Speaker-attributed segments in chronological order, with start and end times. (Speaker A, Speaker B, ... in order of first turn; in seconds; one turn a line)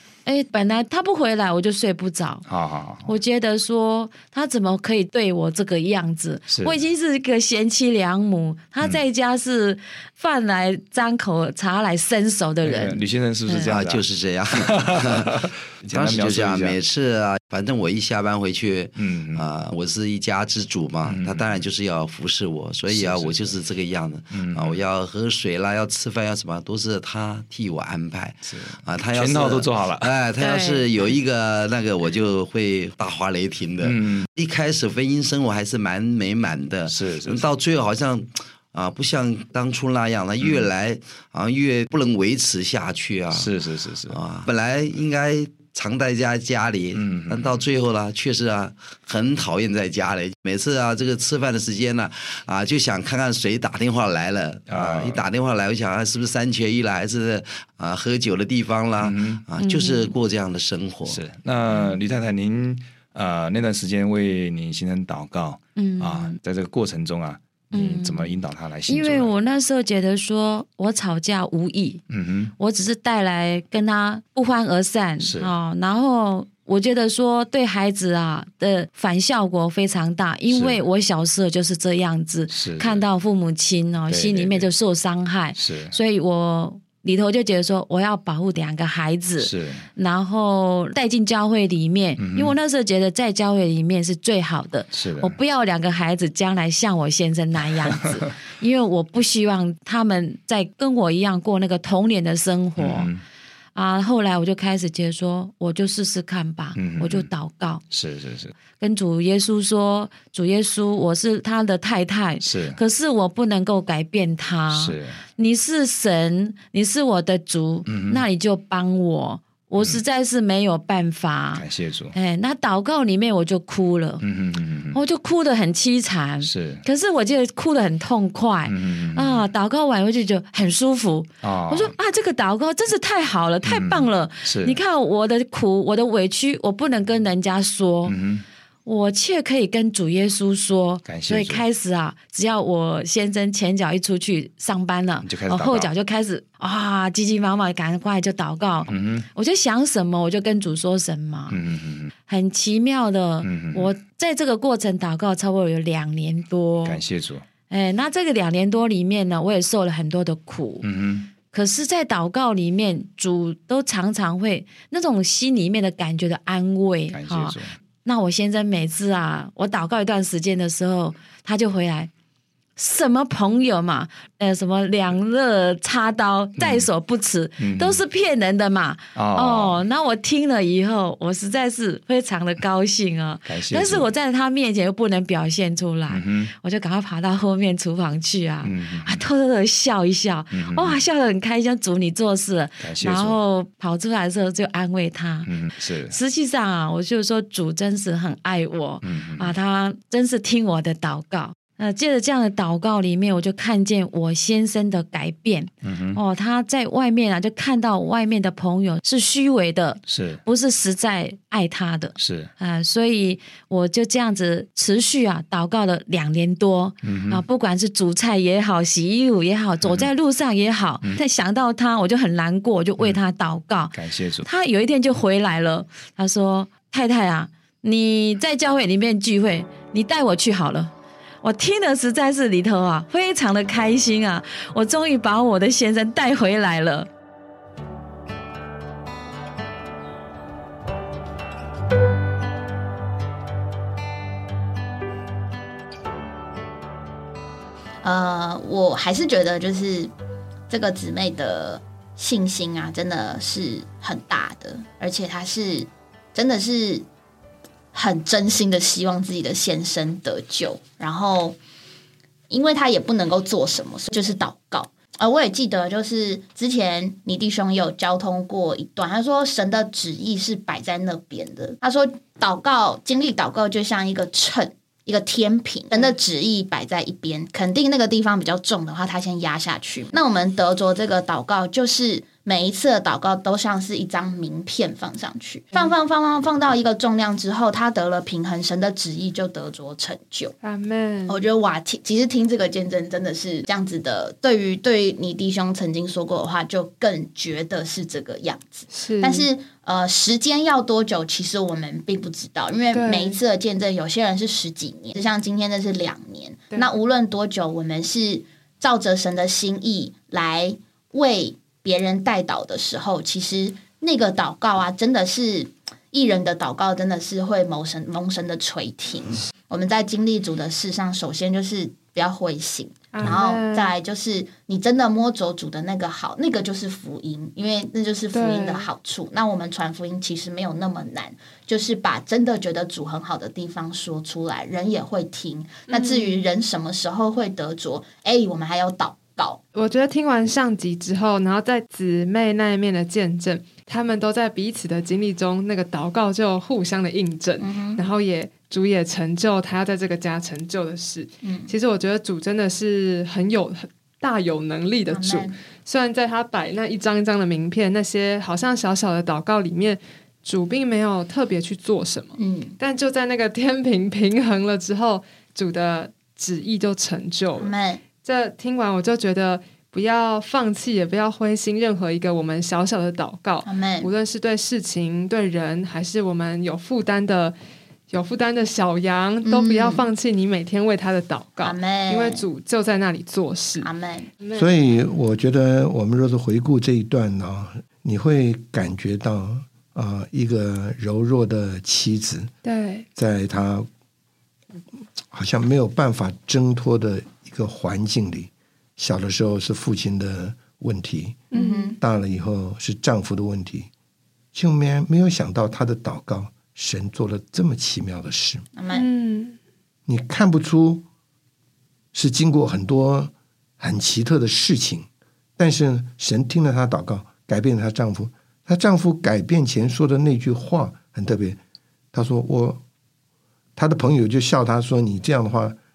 Speaker A: 0.2-2.4
Speaker B: 2.5-3.1
Speaker A: 3.0-13.7
Speaker B: 6.5-6.8
Speaker B: 12.6-14.0
Speaker C: 13.7-43.5
Speaker B: 14.7-16.8
Speaker B: 19.0-19.4
Speaker B: 21.1-21.6
Speaker B: 22.9-23.6
Speaker B: 24.3-24.8
Speaker B: 28.4-30.1
Speaker A: 30.4-31.1
Speaker B: 33.8-34.2
Speaker B: 36.9-37.4
Speaker B: 40.4-40.7
Speaker B: 43.3-44.2
Speaker C: 44.0-61.2
Speaker B: 46.9-47.6
Speaker B: 54.7-55.2
Speaker B: 59.0-59.4
Speaker A: 59.6-60.1
Speaker B: 61.1-69.3
Speaker A: 65.8-66.3
Speaker A: 67.7-68.3
Speaker A: 68.9-72.0
Speaker B: 72.1-72.5
Speaker A: 72.6-103.1
Speaker B: 75.2-75.5
Speaker B: 80.5-80.8
Speaker B: 82.5-83.0
Speaker B: 84.1-84.7
Speaker B: 85.5-86.0
Speaker B: 89.4-89.8
Speaker B: 92.2-92.5
Speaker B: 94.9-95.3
Speaker B: 102.8-103.2
Speaker A: 103.7-107.8
Speaker B: 106.8-107.2
Speaker B: 107.9-108.5
Speaker A: 108.8-124.2
Speaker B: 112.4-112.8
Speaker B: 114.7-115.2
Speaker B: 117.9-118.2
Speaker B: 121.5-122.1
Speaker B: 124.2-125.0
Speaker A: 124.9-138.2
Speaker B: 126.4-126.8
Speaker B: 128.7-129.5
Speaker B: 131.4-131.9
Speaker B: 133.6-134.8
Speaker B: 138.1-138.4
Speaker A: 138.8-151.6
Speaker B: 141.1-141.6
Speaker B: 145.2-145.9
Speaker B: 148.9-149.3
Speaker B: 151.5-152.1
Speaker A: 152.3-157.0
Speaker B: 153.4-153.9
Speaker B: 156.8-157.4
Speaker A: 157.7-160.8
Speaker B: 160.8-161.3
Speaker A: 161.5-172.1
Speaker B: 167.1-167.7
Speaker A: 172.8-195.5
Speaker B: 176.6-176.8
Speaker B: 177.6-178.0
Speaker B: 179.1-179.8
Speaker B: 183.4-184.1
Speaker B: 186.1-186.5
Speaker B: 188.6-189.2
Speaker B: 190.5-191.0
Speaker B: 192.8-193.4
Speaker B: 195.4-196.2
Speaker A: 196.1-237.1
Speaker B: 199.0-199.5
Speaker B: 205.8-206.2
Speaker B: 210.1-210.4
Speaker B: 212.2-212.5
Speaker B: 217.0-217.4
Speaker B: 219.8-220.1
Speaker B: 223.9-224.5
Speaker D: 248.0-250.1
Speaker D: 250.7-257.0
Speaker D: 257.9-261.6
Speaker D: 262.5-290.5
Speaker E: 290.6-291.4
Speaker D: 291.3-339.6
Speaker E: 298.9-299.5
Speaker E: 302.9-303.4
Speaker E: 323.1-323.9
Speaker E: 328.3-328.9
Speaker E: 335.9-336.4
Speaker E: 339.7-377.5
Speaker D: 347.6-348.0
Speaker D: 351.4-351.7
Speaker D: 355.1-355.6
Speaker D: 362.4-362.7
Speaker D: 367.6-368.0
Speaker D: 373.6-374.1
Speaker E: 378.1-384.7
Speaker D: 379.4-380.1
Speaker D: 381.6-382.4
Speaker D: 383.8-384.3
Speaker F: 384.5-392.5
Speaker E: 392.6-393.0
Speaker F: 393.1-393.9
Speaker F: 395.3-403.9
Speaker E: 401.5-401.9
Speaker D: 401.6-402.0
Speaker F: 404.5-408.6
Speaker D: 408.7-409.1
Speaker E: 408.9-409.6
Speaker F: 410.1-411.0
Speaker F: 412.1-421.6
Speaker F: 422.1-422.8
Speaker F: 423.8-425.8